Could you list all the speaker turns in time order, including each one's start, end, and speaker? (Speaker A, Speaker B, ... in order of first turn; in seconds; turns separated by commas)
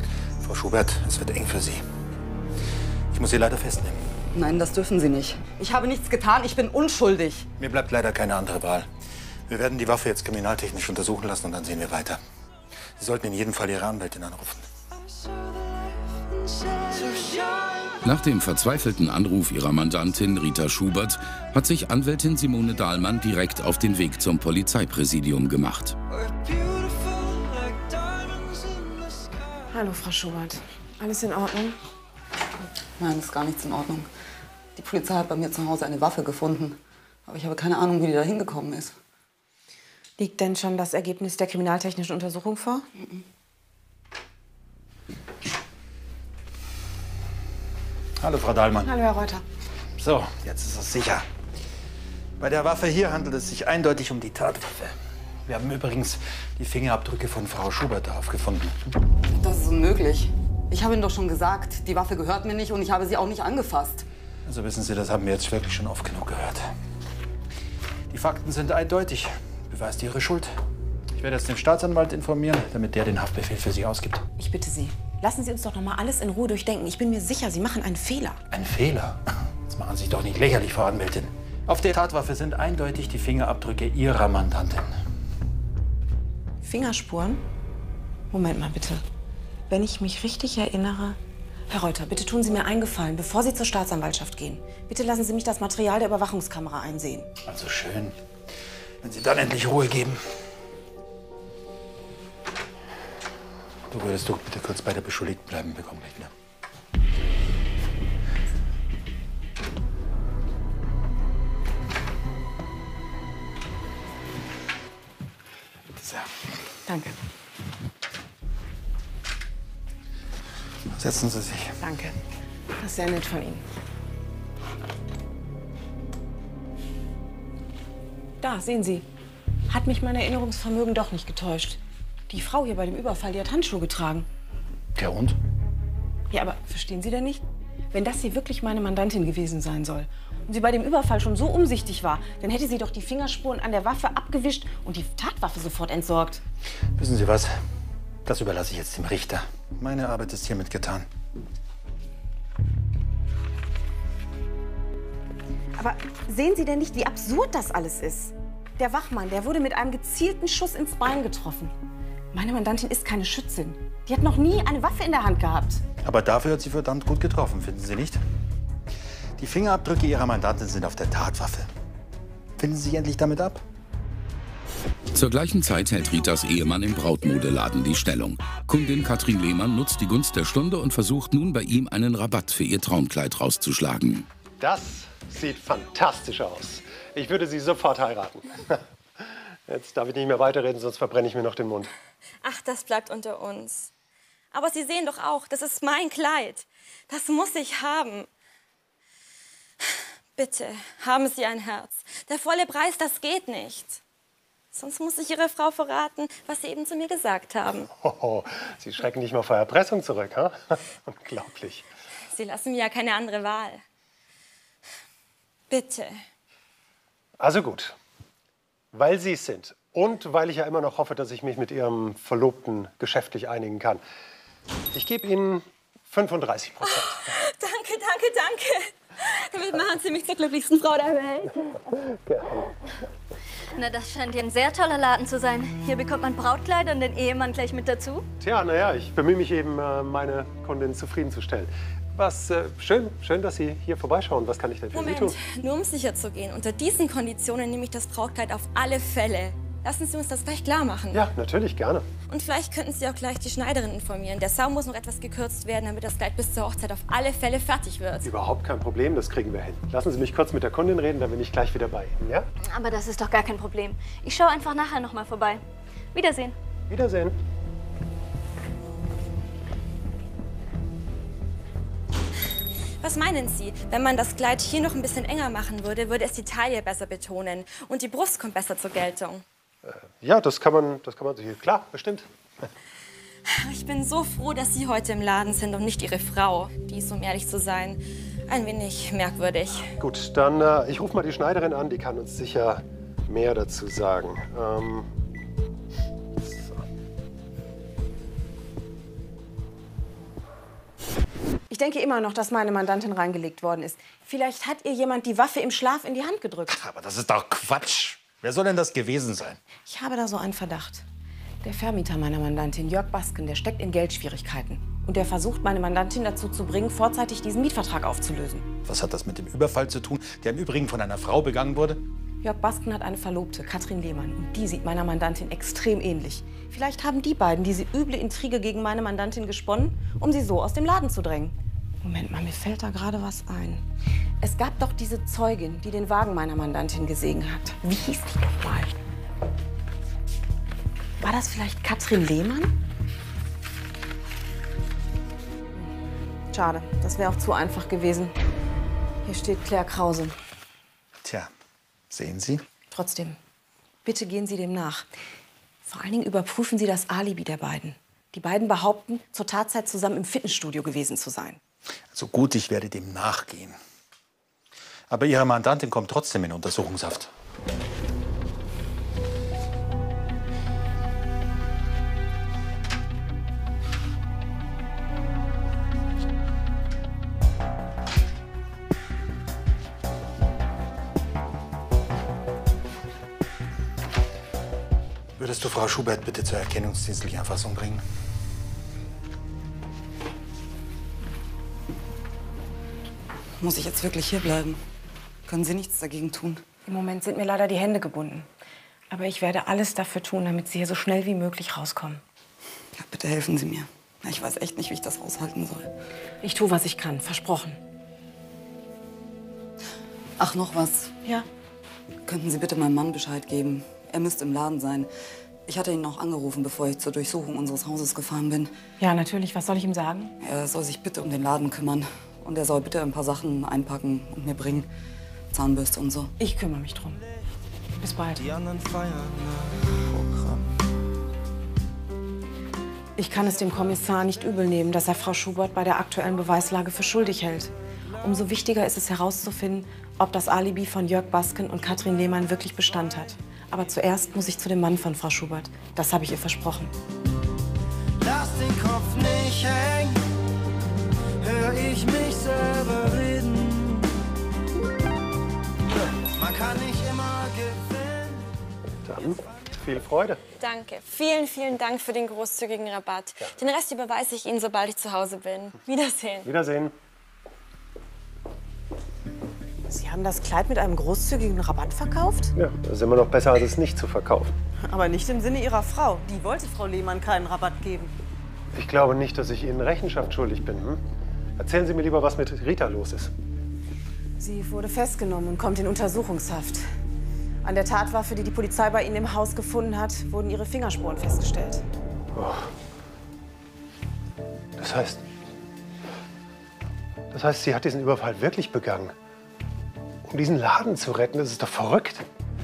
Speaker A: 0.4-1.8, Speaker A: 3.1-4.0, Speaker B: 4.3-7.5, Speaker A: 7.6-8.9, Speaker A: 9.5-12.2, Speaker A: 13.0-14.7, Speaker C: 16.9-18.0, Speaker D: 18.0-26.0, Speaker C: 26.1-29.4, Speaker E: 29.7-31.8, Speaker B: 33.0-34.1, Speaker B: 34.8-39.0, Speaker E: 40.2-42.9, Speaker A: 48.2-48.9, Speaker E: 48.8-49.4, Speaker A: 50.0-51.3, Speaker A: 52.4-58.9, Speaker B: 59.3-64.0, Speaker A: 64.5-66.7, Speaker A: 68.1-70.5, Speaker A: 71.1-74.2, Speaker E: 74.4-78.4, Speaker A: 78.5-84.9, Speaker E: 86.6-87.4, Speaker E: 88.3-89.0, Speaker E: 89.7-91.2, Speaker E: 91.7-97.3, Speaker A: 97.4-98.2, Speaker A: 99.0-100.2, Speaker A: 103.9-106.3, Speaker A: 116.0-116.3, Speaker E: 116.8-117.1, Speaker A: 120.9-121.8, Speaker E: 121.8-122.2, Speaker E: 122.8-123.6, Speaker E: 128.4-129.1, Speaker E: 129.7-134.3, Speaker A: 134.9-135.4, Speaker E: 136.3-146.4, Speaker A: 147.0-147.6, Speaker A: 148.2-151.1, Speaker E: 155.8-161.7, Speaker E: 162.3-165.8, Speaker A: 166.0-168.2, Speaker A: 169.4-171.7, Speaker A: 172.6-173.6, Speaker D: 175.1-184.3, Speaker F: 184.6-188.8, Speaker F: 189.7-191.9, Speaker G: 192.4-193.9, Speaker G: 194.5-198.3, Speaker G: 200.3-204.0, Speaker G: 204.7-207.9, Speaker F: 208.0-211.8, Speaker G: 212.3-213.8, Speaker G: 215.7-216.2, Speaker F: 217.4-218.0, Speaker F: 218.9-224.0, Speaker F: 224.9-227.3, Speaker G: 227.2-231.8, Speaker F: 232.3-232.7, Speaker H: 233.8-238.2, Speaker F: 238.4-245.4, Speaker G: 244.9-251.3, Speaker F: 251.1-252.1, Speaker G: 252.3-258.3, Speaker F: 258.2-262.5, Speaker H: 262.7-265.6, Speaker H: 266.1-266.5, Speaker F: 266.9-267.4, Speaker G: 273.0-279.4, Speaker F: 279.9-282.3, Speaker G: 283.5-289.9, Speaker F: 290.0-295.1, Speaker F: 296.4-296.8, Speaker E: 301.7-306.8, Speaker A: 306.7-309.6, Speaker E: 309.9-311.0, Speaker E: 311.6-318.6, Speaker A: 318.9-322.0, Speaker E: 322.4-333.9, Speaker E: 334.4-338.9, Speaker E: 341.2-342.8, Speaker E: 346.5-348.4, Speaker E: 349.2-350.4, Speaker A: 351.2-351.5, Speaker A: 352.1-352.6, Speaker E: 352.9-353.4, Speaker E: 354.0-355.1, Speaker E: 355.9-361.6, Speaker A: 362.1-363.8, Speaker A: 365.1-367.3, Speaker A: 385.4-388.0, Speaker B: 393.6-394.8, Speaker B: 395.5-396.6, Speaker E: 396.9-398.5, Speaker E: 399.1-402.2, Speaker B: 402.9-405.9, Speaker E: 406.4-407.8, Speaker B: 410.4-411.1, Speaker B: 412.2-415.1, Speaker B: 415.7-418.7, Speaker E: 419.0-420.3, Speaker B: 420.4-424.9, Speaker B: 425.5-426.3, Speaker E: 426.4-427.2, Speaker E: 428.0-428.5, Speaker C: 428.4-430.8, Speaker E: 433.2-446.9, Speaker C: 448.2-450.2, Speaker C: 451.4-454.2, Speaker C: 456.2-458.5, Speaker F: 459.1-460.4, Speaker G: 460.6-466.5, Speaker F: 466.4-466.9, Speaker E: 469.9-472.5, Speaker F: 472.6-474.5, Speaker E: 474.8-478.1, Speaker F: 478.7-481.0, Speaker F: 481.6-483.3, Speaker E: 484.4-486.9, Speaker E: 487.6-491.8, Speaker F: 492.4-492.7, Speaker F: 494.8-495.2, Speaker F: 497.3-499.1, Speaker F: 500.2-502.2